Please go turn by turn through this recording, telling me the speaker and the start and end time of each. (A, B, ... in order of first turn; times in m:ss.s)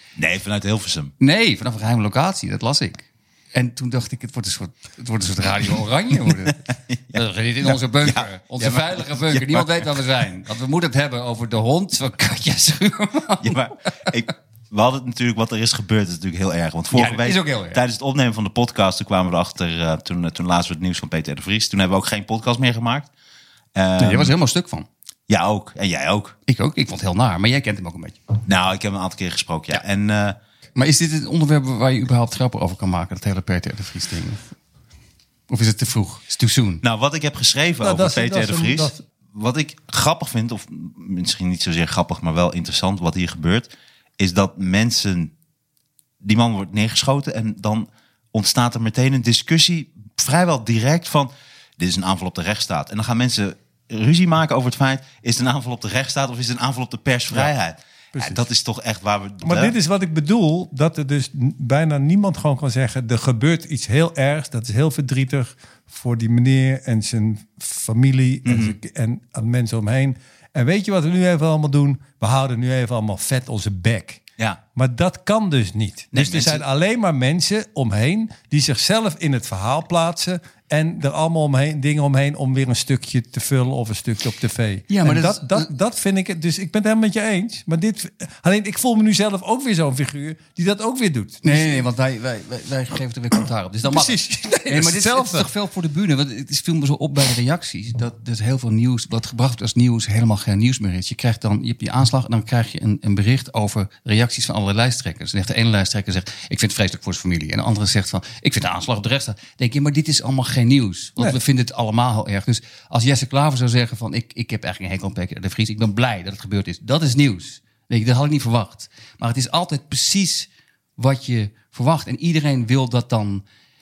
0:00.2-0:01.1 A
0:01.2-0:13.6 B
0:06.9-0:09.9 A
0:13.4-0:23.1 A
0:16.9-0:17.8 B
0:23.8-0:24.3 A
0:24.0-0:24.9 B
0:25.3-0:26.4 A
0:26.5-0:28.2 B
0:28.5-0:30.4 A
0:30.8-0:34.4 B
0:35.5-0:36.8 B
0:36.8-0:45.3 A
0:37.8-0:39.0 C
0:46.2-0:59.7 A
0:58.2-0:58.4 C
0:59.4-1:14.2 C
1:08.4-1:08.8 A
1:14.8-1:31.8 C
1:16.1-1:16.6 A
1:24.9-1:25.7 B
1:31.4-2:03.4 B
1:33.8-1:35.5 C